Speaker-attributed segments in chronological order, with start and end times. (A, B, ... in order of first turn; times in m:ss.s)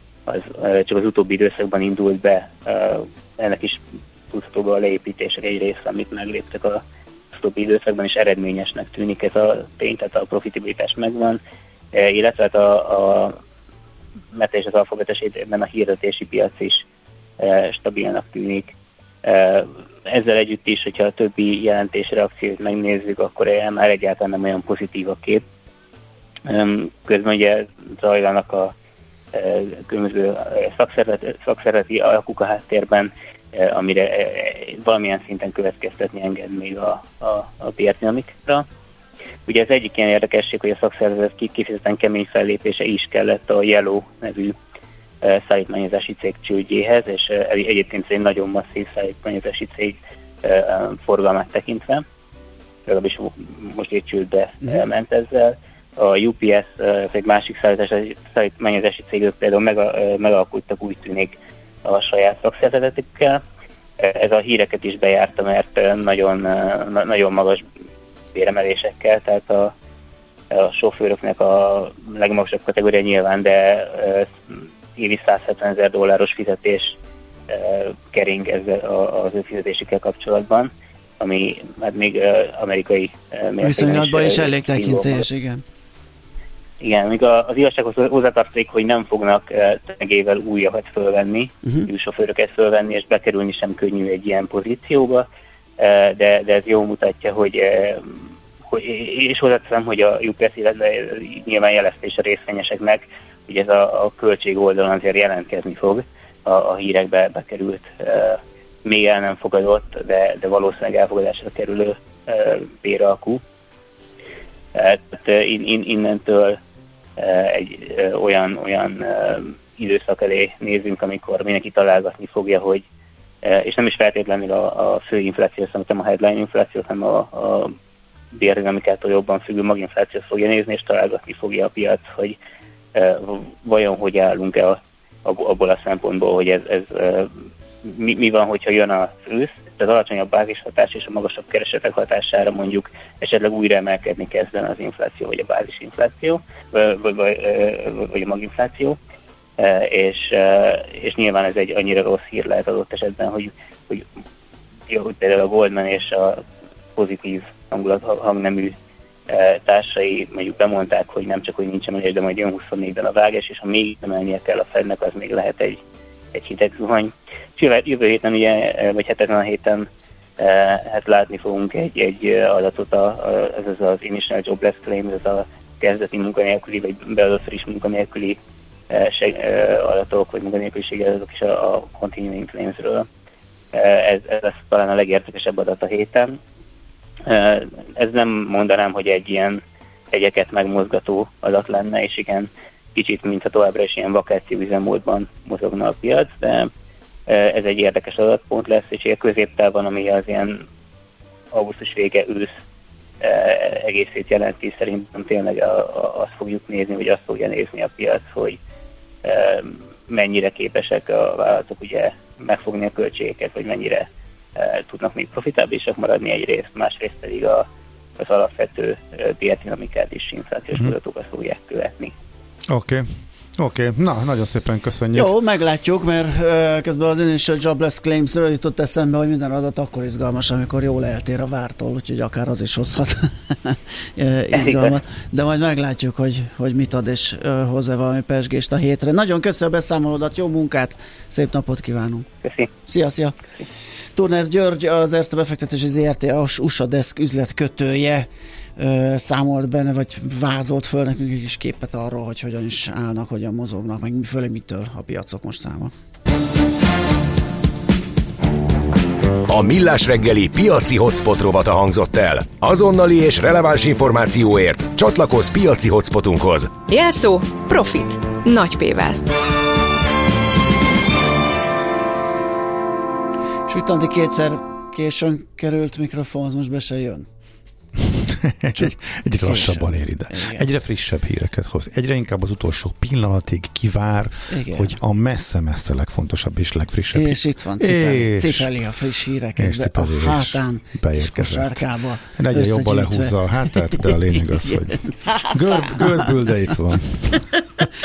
0:00.3-0:11.4 A
0:11.9-0:13.4 A
0:14.3-0:16.8 A
0:17.4-0:25.4 A
0:26.5-0:28.7 A
0:29.3-0:38.6 A
0:39.5-0:44.6 A
0:45.2-0:52.0 A
0:52.9-1:03.4 A
1:04.0-1:07.6 A
1:08.3-1:09.7 A
1:10.5-1:17.0 A
1:17.5-1:25.2 A
1:23.6-1:25.6 B
1:26.8-1:35.2 A
1:35.8-1:53.4 A
1:54.7-1:56.6 A
1:57.2-2:02.8 A
2:03.4-2:07.7 A
2:08.3-2:12.4 A
2:12.9-2:17.3 A
2:17.8-2:29.0 A
2:29.6-2:34.0 A
2:34.9-2:36.4 A
2:37.0-2:38.7 A
2:39.3-2:45.8 A
2:46.3-2:49.9 A
2:50.4-2:58.4 A
2:58.9-3:03.1 A
3:03.7-3:06.4 A
3:07.3-3:16.7 A
3:17.3-3:20.6 A
3:21.5-3:22.6 A
3:23.2-3:28.6 A
3:29.2-3:37.6 A
3:38.2-3:42.1 A
3:42.7-3:43.0 C
3:43.6-3:45.3 C
3:45.1-4:02.3 B
3:54.5-3:55.0 A
4:02.4-4:02.7 A
4:02.8-4:03.4 B
4:04.1-4:15.9 B
4:19.5-4:26.8 D
4:26.9-4:29.2 E
4:33.7-4:37.3 B
4:38.4-4:48.7 C
4:38.8-4:40.6 B
4:44.5-4:45.0 B
4:47.1-4:56.3 B
4:49.6-4:51.8 C
4:52.3-4:57.5 C